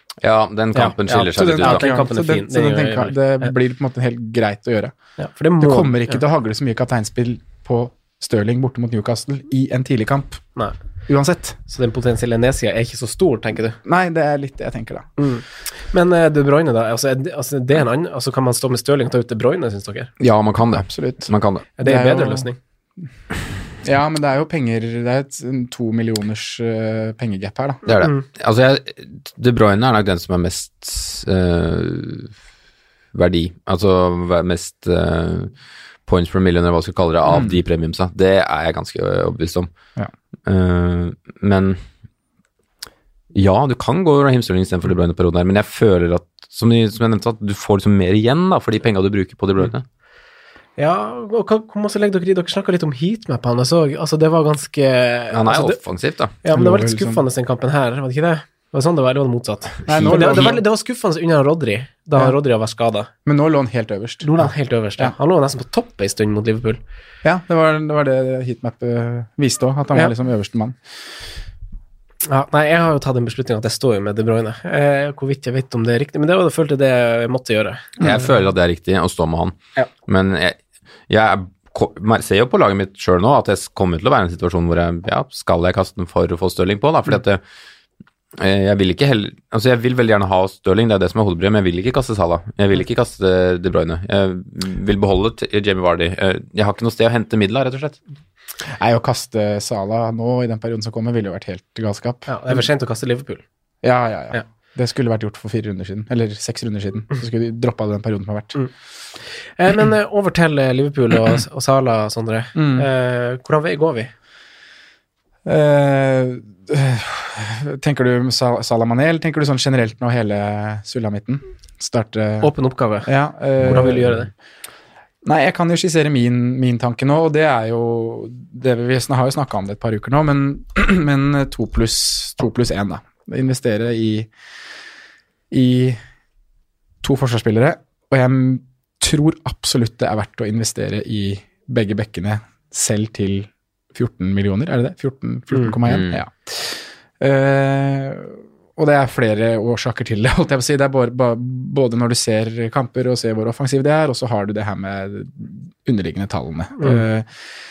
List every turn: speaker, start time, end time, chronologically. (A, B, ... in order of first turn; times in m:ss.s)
0:00.2-0:01.8 A
0:00.7-0:03.5 B
0:01.1-0:04.9 C
0:05.2-0:06.2 B
0:05.6-0:10.4 C
0:11.1-0:11.6 C
0:11.7-0:13.8 B
0:13.8-0:15.1 C
0:15.2-0:20.1 B
0:20.2-0:21.7 A
0:20.7-0:21.3 C
0:21.8-0:22.6 B
0:21.8-0:22.5 C
0:23.8-0:27.8 C
0:27.8-0:32.3 A
0:33.1-0:35.5 A
0:36.0-0:39.7 A
0:37.3-0:37.6 C
0:40.4-0:41.8 A
0:43.3-0:49.8 A
0:50.8-0:55.8 B
0:55.3-0:56.3 A
0:56.4-1:03.1 B
0:56.5-0:57.2 C
0:59.9-1:00.6 C
1:03.2-1:05.1 C
1:04.2-1:06.8 B
1:07.2-1:10.8 C
1:12.2-1:17.9 B
1:18.0-1:19.6 A
1:20.1-1:20.6 A
1:21.1-1:27.4 A
1:28.4-1:38.0 A
1:38.6-1:42.6 C
1:42.3-1:43.4 B
1:43.8-1:48.6 C
1:49.5-1:54.1 B
1:52.5-1:52.8 C
1:55.4-2:02.5 C
2:02.4-2:04.3 B
2:03.0-2:04.3 C
2:05.2-2:14.3 C
2:15.5-2:16.0 C
2:17.0-2:37.3 C
2:25.5-2:25.8 B
2:25.8-2:26.2 A
2:36.8-2:37.0 B